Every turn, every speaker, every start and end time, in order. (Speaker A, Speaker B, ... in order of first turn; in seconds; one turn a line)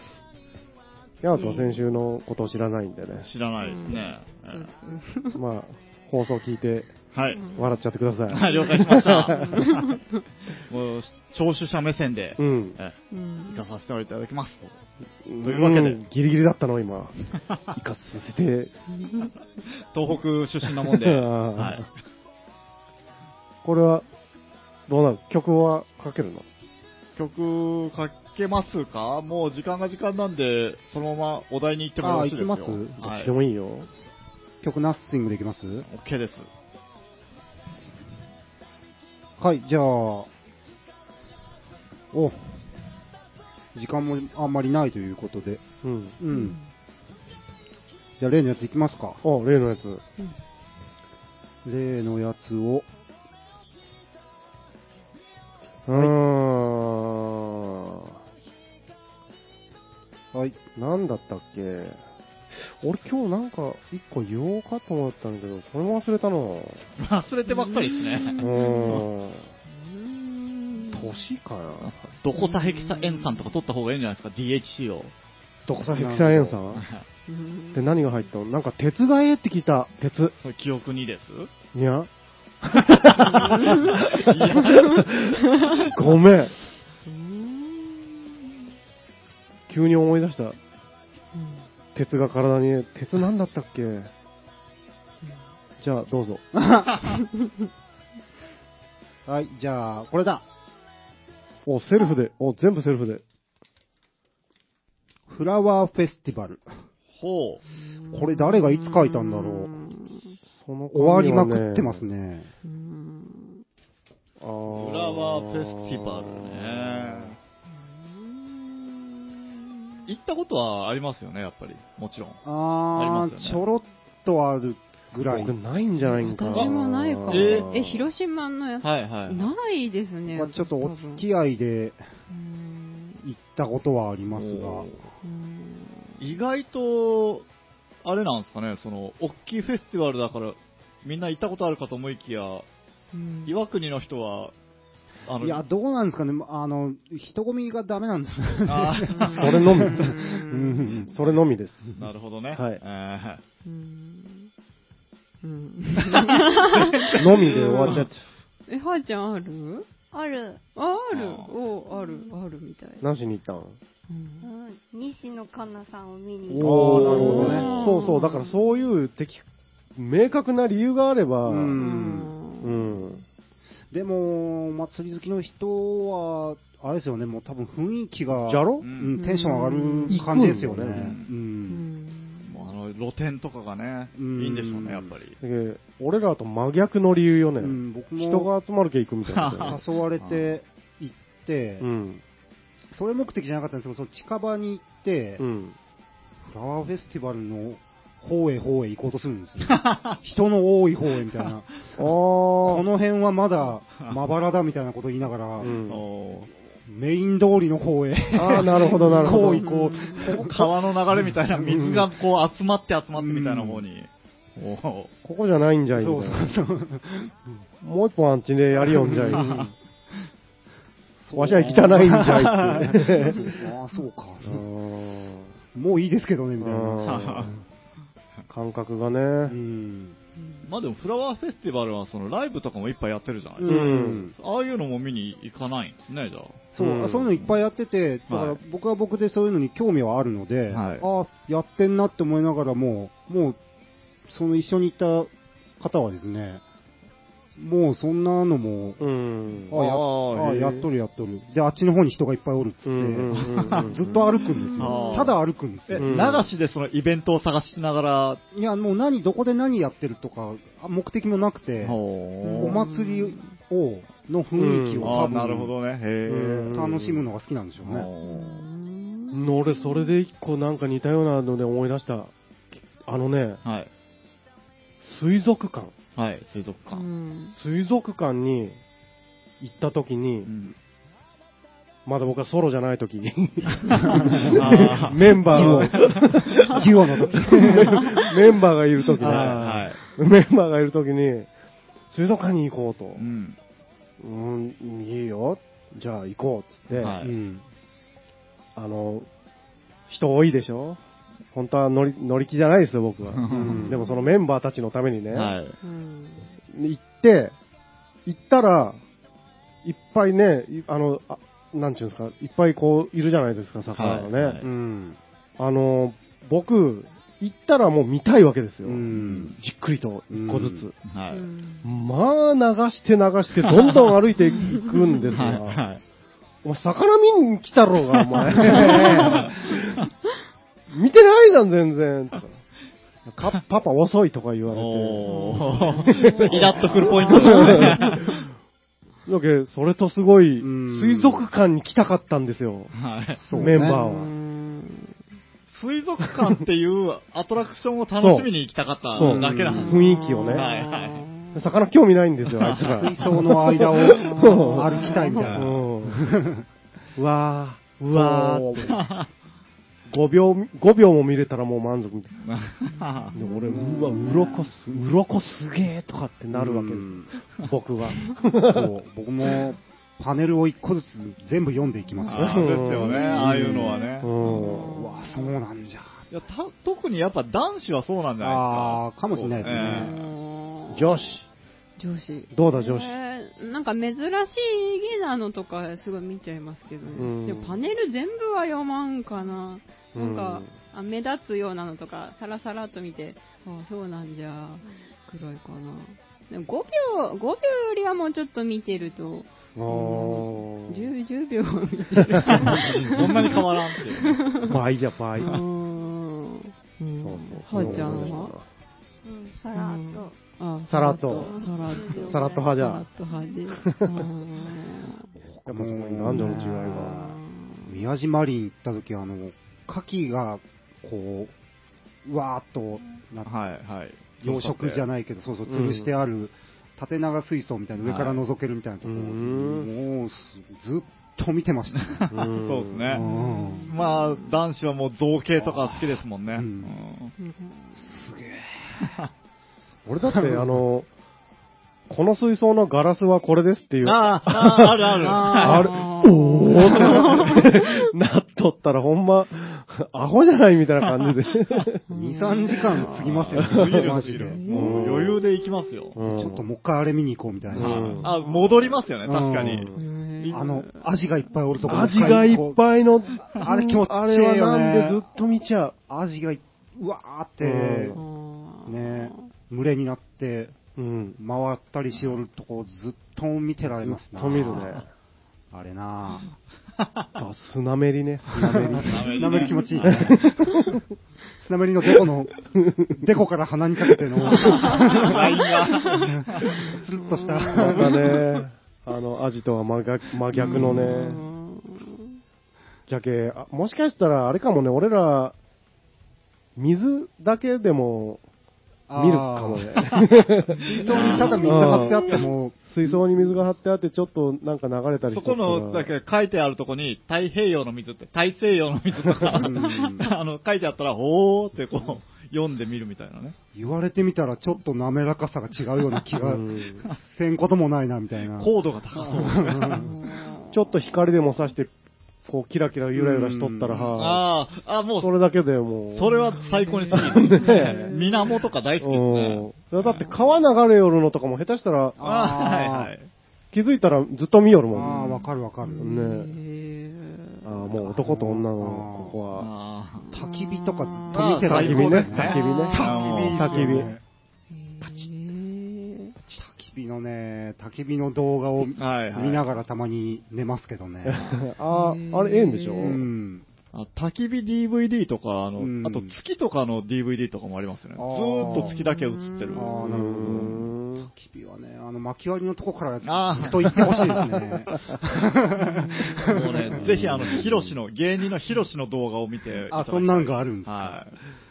Speaker A: 1.2-3.3
Speaker B: 1.3-1.8
Speaker C: 3.2-4.7
Speaker B: 3.6-5.4
Speaker A: 5.3-6.9
Speaker C: 7.1-7.4
Speaker B: 7.3-7.7
Speaker A: 7.5-9.5
Speaker C: 8.3-10.0
Speaker B: 8.5-10.2
Speaker C: 10.6-12.9
Speaker A: 12.4-12.8
Speaker B: 13.1-13.6
Speaker C: 13.5-14.7
Speaker A: 15.2-17.1
Speaker C: 15.4-16.0
Speaker A: 17.7-18.7
Speaker B: 18.9-19.3
Speaker C: 19.9-21.9
Speaker A: 20.7-21.8
Speaker A: 23.6-24.1
Speaker A: 24.9-26.4
Speaker C: 27.1-33.3
Speaker D: 32.0-33.0
Speaker A: 33.0-33.9
Speaker D: 34.6-35.9
Speaker C: 35.9-36.5
Speaker D: 39.4-40.3
Speaker D: 42.1-42.4
Speaker D: 43.7-45.6
Speaker A: 45.8-46.2
Speaker D: 46.2-46.5
Speaker B: 46.3-46.7
Speaker D: 48.2-49.2
Speaker A: 49.2-50.0
Speaker D: 51.6-52.9
Speaker A: 55.9-58.2
Speaker A: 60.8-62.0
Speaker A: 62.5-66.8
Speaker C: 67.0-69.1
Speaker B: 67.5-69.0
Speaker A: 68.4-69.5
Speaker B: 69.7-71.2
Speaker A: 70.9-72.0
Speaker C: 71.8-75.1
Speaker B: 72.3-73.5
Speaker A: 75.7-76.8
Speaker D: 75.9-76.4
Speaker C: 76.2-77.0
Speaker B: 77.3-78.0
Speaker A: 77.7-80.3
Speaker C: 80.4-81.5
Speaker A: 81.7-82.1
Speaker A: 82.6-85.4
Speaker C: 83.2-85.2
Speaker B: 83.5-84.0
Speaker B: 84.6-85.8
Speaker A: 85.9-86.5
Speaker B: 87.0-88.3
Speaker A: 89.7-90.6
Speaker B: 91.3-91.7
Speaker A: 91.9-94.1
Speaker A: 95.8-96.4
Speaker D: 96.5-96.9
Speaker D: 99.2-100.4
Speaker A: 101.6-103.2
Speaker D: 105.3-106.7
Speaker C: 107.2-107.6
Speaker B: 107.7-110.3
Speaker D: 108.1-109.7
Speaker A: 110.5-112.0
Speaker D: 110.9-112.5
Speaker B: 112.6-113.6
Speaker A: 114.4-117.3
Speaker C: 114.7-117.4
Speaker B: 117.7-120.1
Speaker C: 120.1-122.4
Speaker D: 122.4-125.5
Speaker C: 122.9-123.6
Speaker A: 125.3-128.1
Speaker B: 126.0-131.2
Speaker C: 127.3-127.7
Speaker C: 128.8-129.5
Speaker D: 130.3-132.0
Speaker B: 132.3-133.2
Speaker D: 133.2-134.9
Speaker C: 134.3-135.1
Speaker B: 135.2-136.3
Speaker C: 136.2-137.4
Speaker C: 138.0-142.7
Speaker B: 143.1-143.6
Speaker C: 143.4-144.5
Speaker C: 145.3-145.6
Speaker D: 145.4-151.1
Speaker C: 148.7-149.6
Speaker B: 149.1-151.2
Speaker A: 149.3-150.1
Speaker A: 151.1-151.9
Speaker C: 151.9-153.4
Speaker A: 152.5-152.8
Speaker B: 153.6-154.5
Speaker B: 155.4-158.0
Speaker A: 157.2-158.2
Speaker B: 158.7-159.9
Speaker E: 160.1-160.6
Speaker B: 160.7-163.0
Speaker C: 161.1-161.5
Speaker E: 161.9-162.3
Speaker A: 163.0-163.8
Speaker B: 164.1-164.5
Speaker E: 164.4-167.2
Speaker A: 166.4-171.7
Speaker D: 166.6-167.7
Speaker B: 167.1-168.9
Speaker C: 167.4-167.7
Speaker D: 171.5-172.3
Speaker B: 171.8-173.2
Speaker A: 172.6-173.2
Speaker D: 173.9-181.8
Speaker A: 178.4-178.8
Speaker C: 178.8-179.1
Speaker B: 179.2-180.5
Speaker A: 180.1-181.1
Speaker C: 180.9-181.3
Speaker B: 181.7-182.7
Speaker C: 182.4-185.4
Speaker D: 184.2-185.1
Speaker A: 185.4-189.8
Speaker D: 187.6-188.5
Speaker C: 189.3-190.6
Speaker D: 189.6-191.8
Speaker A: 191.8-192.2
Speaker D: 192.9-195.4
Speaker A: 195.4-195.8
Speaker D: 196.4-201.7
Speaker C: 199.6-200.2
Speaker A: 202.0-202.8
Speaker D: 202.6-205.8
Speaker A: 205.6-206.0
Speaker C: 205.9-206.5
Speaker D: 206.8-210.5
Speaker A: 208.3-209.7
Speaker B: 208.8-210.4
Speaker C: 210.3-215.1
Speaker A: 211.6-212.0
Speaker D: 213.2-213.8
Speaker A: 215.2-216.5
Speaker D: 215.9-217.3
Speaker A: 217.8-219.7
Speaker D: 219.0-219.7
Speaker D: 221.2-224.6
Speaker A: 221.3-223.4
Speaker A: 224.4-225.5
Speaker D: 225.7-227.1
Speaker A: 226.6-227.5
Speaker C: 227.0-227.5
Speaker A: 228.5-229.6
Speaker D: 229.4-230.2
Speaker B: 230.4-230.7
Speaker C: 230.6-236.7
Speaker D: 233.6-234.3
Speaker A: 233.6-234.3
Speaker D: 236.7-243.6
Speaker A: 236.8-237.3
Speaker C: 238.3-238.6
Speaker C: 240.7-241.0
Speaker D: 244.3-246.6
Speaker D: 247.6-249.0
Speaker A: 249.0-249.7
Speaker D: 249.7-256.1
Speaker C: 249.7-250.8
Speaker A: 252.8-254.0
Speaker C: 253.3-254.2
Speaker B: 254.4-255.3
Speaker C: 254.8-255.3
Speaker C: 255.9-258.4
Speaker A: 256.0-256.5
Speaker D: 258.5-262.0
Speaker C: 261.8-262.8
Speaker B: 262.4-263.5
Speaker D: 262.6-265.7
Speaker A: 264.6-265.6
Speaker C: 265.0-266.8
Speaker A: 266.2-267.3
Speaker D: 266.7-268.1
Speaker C: 267.8-268.6
Speaker B: 268.2-270.2
Speaker A: 269.3-272.3
Speaker A: 272.9-273.6
Speaker A: 275.0-275.9
Speaker C: 276.1-277.0
Speaker B: 276.9-277.6
Speaker A: 277.5-278.8
Speaker A: 279.6-280.5
Speaker C: 280.4-280.7
Speaker A: 282.1-286.8
Speaker C: 283.7-286.2
Speaker D: 284.1-284.8
Speaker D: 285.5-286.1
Speaker D: 286.7-288.0
Speaker A: 287.6-291.5
Speaker C: 289.2-290.0
Speaker D: 289.2-289.7
Speaker A: 292.1-293.2
Speaker C: 293.2-293.6
Speaker A: 294.2-297.2
Speaker C: 297.0-297.3
Speaker D: 297.2-297.6
Speaker A: 298.7-299.3
Speaker A: 300.1-301.0
Speaker A: 301.5-305.5
Speaker C: 303.3-303.9
Speaker D: 303.5-303.9
Speaker B: 303.9-304.3
Speaker C: 305.3-305.7
Speaker B: 305.8-306.5
Speaker A: 306.7-307.5
Speaker A: 308.2-309.0
Speaker A: 309.8-314.8
Speaker C: 313.9-314.6
Speaker D: 314.8-315.2
Speaker A: 315.6-320.9
Speaker D: 318.8-319.5
Speaker C: 319.2-319.5
Speaker D: 320.3-320.9
Speaker C: 321.1-321.5
Speaker B: 321.3-321.9
Speaker A: 321.8-325.8
Speaker C: 323.6-324.1
Speaker B: 324.5-325.4
Speaker C: 325.3-326.0
Speaker A: 326.6-330.0
Speaker C: 328.5-329.5
Speaker B: 328.7-329.5
Speaker A: 330.9-332.6
Speaker A: 333.3-338.4
Speaker C: 334.7-338.4
Speaker B: 335.2-338.2
Speaker A: 339.2-342.9
Speaker D: 340.6-341.4
Speaker C: 342.9-343.4
Speaker D: 343.4-344.0
Speaker B: 343.5-345.2
Speaker A: 343.6-344.3
Speaker C: 345.7-351.2
Speaker A: 348.2-348.5
Speaker A: 349.1-350.7
Speaker D: 349.2-350.0
Speaker B: 349.7-351.8
Speaker A: 351.5-355.0
Speaker C: 352.6-352.9
Speaker D: 352.8-356.6
Speaker B: 354.0-355.6
Speaker C: 355.4-355.7
Speaker A: 355.6-356.2
Speaker A: 357.1-358.9
Speaker C: 358.1-359.3
Speaker A: 360.1-362.4
Speaker C: 362.4-363.3
Speaker B: 362.9-364.6
Speaker A: 363.3-368.9
Speaker D: 363.7-364.4
Speaker D: 366.5-367.3
Speaker D: 368.6-372.9
Speaker C: 372.3-374.3
Speaker A: 372.3-374.9
Speaker B: 372.9-375.6
Speaker D: 374.9-376.2
Speaker C: 376.3-380.2
Speaker D: 378.4-380.1
Speaker B: 379.7-381.4
Speaker A: 380.9-381.4
Speaker B: 382.0-404.8
Speaker A: 382.5-383.2
Speaker A: 387.1-387.8
Speaker A: 390.1-390.7
Speaker A: 399.8-401.1
Speaker A: 402.4-402.9
Speaker C: 402.5-404.4
Speaker A: 404.6-405.6
Speaker B: 405.4-408.5
Speaker A: 407.2-408.6
Speaker E: 409.2-410.4
Speaker B: 409.7-415.3
Speaker A: 410.8-411.6
Speaker E: 411.3-412.8
Speaker A: 412.2-413.1
Speaker E: 413.3-413.6
Speaker A: 413.8-414.2
Speaker D: 415.4-421.5
Speaker A: 415.6-417.2
Speaker B: 416.3-418.1
Speaker D: 422.2-423.5
Speaker C: 423.4-425.0
Speaker D: 424.4-432.2
Speaker A: 425.7-426.1
Speaker C: 428.0-428.4
Speaker A: 429.0-429.9
Speaker C: 432.0-433.2
Speaker A: 432.3-433.1
Speaker D: 433.1-433.9
Speaker B: 433.1-434.4
Speaker C: 433.9-437.3
Speaker D: 435.6-436.9
Speaker B: 437.4-438.2
Speaker D: 437.9-439.0
Speaker A: 440.1-441.1
Speaker D: 440.3-440.7
Speaker A: 442.1-452.0
Speaker C: 444.0-445.9
Speaker D: 445.2-445.8
Speaker B: 445.3-448.1
Speaker B: 452.1-453.3
Speaker D: 452.1-454.6
Speaker C: 453.1-456.1
Speaker A: 453.7-455.4
Speaker B: 454.4-455.4
Speaker A: 456.1-456.6
Speaker D: 456.2-458.2
Speaker C: 457.7-459.9
Speaker A: 457.8-458.3
Speaker B: 458.2-459.0
Speaker D: 459.2-459.9
Speaker A: 459.6-460.0
Speaker B: 459.9-461.1
Speaker D: 460.5-462.8
Speaker B: 461.8-462.3
Speaker A: 461.8-465.9
Speaker D: 463.6-465.2
Speaker D: 466.1-468.2
Speaker A: 467.6-468.2
Speaker B: 468.1-469.5
Speaker D: 468.9-470.7
Speaker A: 470.9-471.4
Speaker D: 471.4-475.0
Speaker A: 474.0-475.0
Speaker D: 475.7-476.4
Speaker C: 477.0-477.3
Speaker A: 477.4-479.3
Speaker D: 478.6-480.6
Speaker C: 479.0-480.1
Speaker B: 479.6-480.4
Speaker A: 480.0-481.0
Speaker D: 481.6-482.5
Speaker A: 482.7-483.2
Speaker D: 483.1-488.4
Speaker B: 484.5-486.3
Speaker C: 484.8-486.7
Speaker B: 486.8-488.6
Speaker A: 487.8-491.4
Speaker B: 490.5-492.4
Speaker C: 490.6-491.1
Speaker A: 493.1-495.6
Speaker A: 496.8-498.4
Speaker D: 499.1-500.1
Speaker A: 499.1-502.2
Speaker D: 500.8-503.5
Speaker B: 501.0-502.4
Speaker C: 501.0-501.8
Speaker A: 502.8-506.1
Speaker C: 505.3-513.5
Speaker D: 509.4-510.3
Speaker D: 513.7-520.1
Speaker A: 516.4-517.0
Speaker C: 518.6-520.0
Speaker B: 519.9-520.9
Speaker A: 520.7-521.9
Speaker A: 522.4-524.5
Speaker D: 523.1-524.1
Speaker C: 524.1-525.4
Speaker A: 525.2-526.5
Speaker C: 526.1-530.6
Speaker B: 526.4-528.6
Speaker A: 527.1-528.1
Speaker A: 529.0-532.2
Speaker D: 532.2-533.1
Speaker C: 532.2-533.3
Speaker A: 533.7-535.2
Speaker D: 534.9-536.0
Speaker C: 535.0-535.5
Speaker B: 535.8-537.9
Speaker A: 536.0-536.5
Speaker A: 537.6-539.7
Speaker D: 538.0-539.4
Speaker C: 539.5-540.3
Speaker B: 540.2-541.6
Speaker D: 540.3-544.2
Speaker C: 541.3-544.1
Speaker A: 541.5-544.1
Speaker B: 542.4-543.7
Speaker B: 544.7-546.3
Speaker D: 546.4-551.4
Speaker C: 548.8-549.8
Speaker A: 551.2-553.2
Speaker B: 551.8-553.2
Speaker D: 553.0-553.6
Speaker C: 553.9-560.9
Speaker D: 555.8-556.3
Speaker D: 558.2-559.0
Speaker B: 558.6-560.1
Speaker D: 559.7-567.9
Speaker A: 560.0-561.3
Speaker C: 563.2-564.5
Speaker B: 565.7-566.9
Speaker C: 566.4-571.3
Speaker D: 569.9-571.2